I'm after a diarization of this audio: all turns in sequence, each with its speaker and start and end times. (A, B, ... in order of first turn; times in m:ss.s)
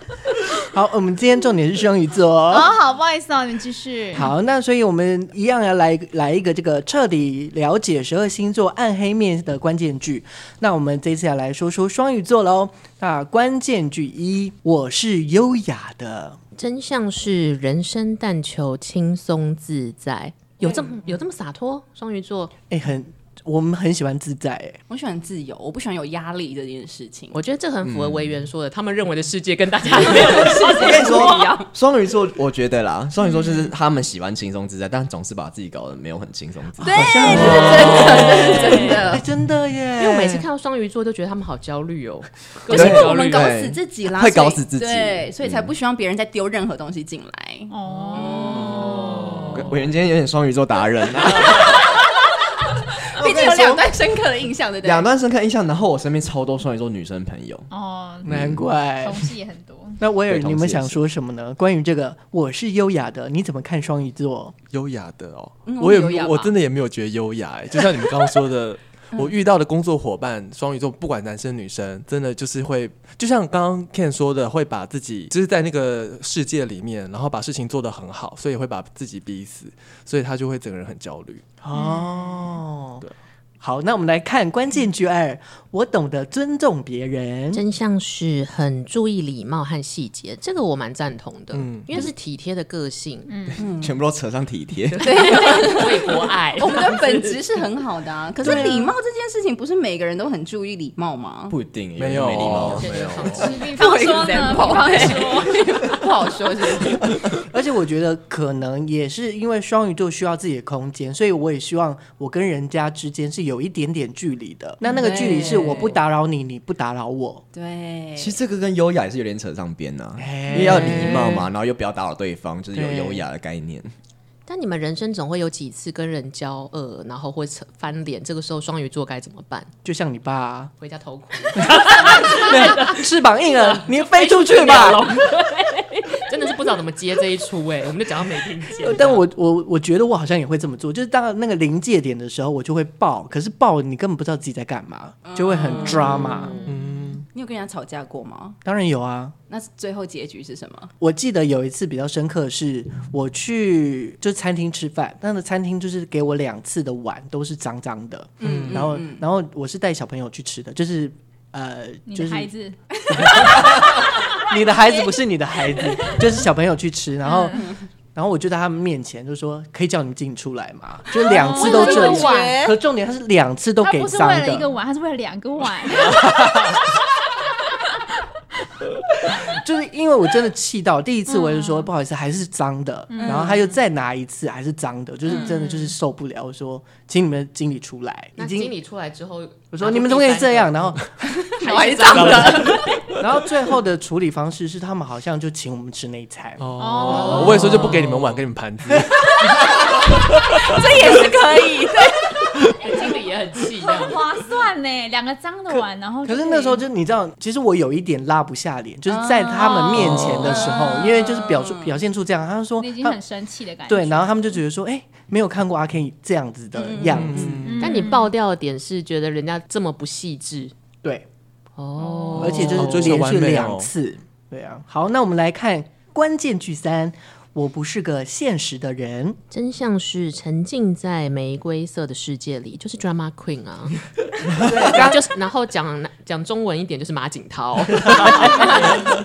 0:00.7-0:02.7 A
0:02.5-0:04.3 B
0:04.1-0:16.4 A
0:16.6-0:22.5 C
0:22.7-0:24.8 A
0:24.9-0:27.4 D
0:27.3-0:31.3 C
0:27.8-0:28.4 E
0:29.8-0:31.7 D
0:30.7-0:38.4 E
0:33.3-0:33.7 D
0:36.8-0:39.2 D
0:36.8-0:40.5 A
0:40.0-0:43.5 C
0:42.7-0:49.2 D
0:42.7-0:45.7 E
0:47.7-0:49.4 B
0:49.5-0:51.9 E
0:51.4-0:52.0 D
0:53.1-0:53.9 E
0:53.1-0:55.1 D
0:54.8-0:57.7 E
0:57.7-1:00.0 B
0:58.2-0:59.3 A
0:58.3-0:58.6 E
1:00.0-1:04.5 A
1:00.3-1:01.0 E
1:04.7-1:21.4 F
1:05.6-1:06.5 D
1:21.6-1:23.0 A
1:21.7-1:22.1 B
1:23.6-1:27.6 A
1:27.5-1:33.3 C
1:31.5-1:32.1 F
1:33.3-1:33.7 B
1:33.6-1:33.9 D
1:33.7-1:35.1 E
1:34.9-1:37.4 C
1:35.0-1:41.6 D
1:38.4-1:38.9 A
1:41.5-1:43.5 E
1:42.0-1:43.3 F
1:42.4-1:43.8 C
1:43.4-1:45.9 B
1:43.6-1:47.2 D
1:47.4-1:57.4 A
1:54.8-1:56.0 D
1:57.5-1:58.4 D
1:58.2-2:03.9 E
2:00.2-2:01.4 A
2:00.7-2:01.2 F
2:02.7-2:03.2 A
2:04.5-2:09.7 C
2:09.8-2:10.7 A
2:10.8-2:19.2 C
2:11.6-2:15.1 A
2:12.1-2:12.6 B
2:18.8-2:26.6 A
2:25.2-2:26.6 D
2:26.6-2:27.2 F
2:27.3-2:28.6 D
2:28.6-2:29.3 A
2:29.5-2:30.9 D
2:31.0-2:42.5 A
2:38.4-2:39.2 D
2:38.4-2:38.9 F
2:42.0-2:43.7 B
2:43.1-2:43.5 D
2:43.2-2:44.0 A
2:44.5-2:47.6 A
2:47.2-2:47.6 B
2:48.1-2:54.7 A
2:51.2-2:52.7 D
2:51.2-2:52.6 B
2:53.8-2:57.0 B
2:59.3-3:08.7 A
3:01.3-3:01.9 B
3:03.1-3:03.7 B
3:03.2-3:03.5 D
3:05.3-3:05.5 D
3:05.4-3:05.9 B
3:08.4-3:11.0 C
3:09.7-3:11.0 A
3:11.3-3:13.0 D
3:11.6-3:12.9 C
3:12.1-3:12.8 F
3:13.2-3:17.2 A
3:16.6-3:19.5 F
3:16.8-3:17.9 B
3:17.1-3:18.3 C
3:19.2-3:22.3 D
3:20.5-3:20.8 F
3:22.8-3:24.2 C
3:22.9-3:23.1 B
3:23.8-3:26.8 B
3:26.2-3:33.2 A
3:29.1-3:32.0 D
3:30.0-3:30.4 F
3:32.8-3:34.6 B
3:33.9-3:37.6 A
3:36.8-3:37.8 D
3:37.1-3:38.0 F
3:37.6-3:38.3 B
3:37.8-3:40.7 C
3:41.8-3:43.1 C
3:42.0-3:42.5 B
3:42.4-3:43.9 F
3:42.4-3:49.4 A
3:49.5-3:54.0 C
3:54.6-3:55.2 A
3:54.8-3:59.0 C
3:58.6-3:59.0 D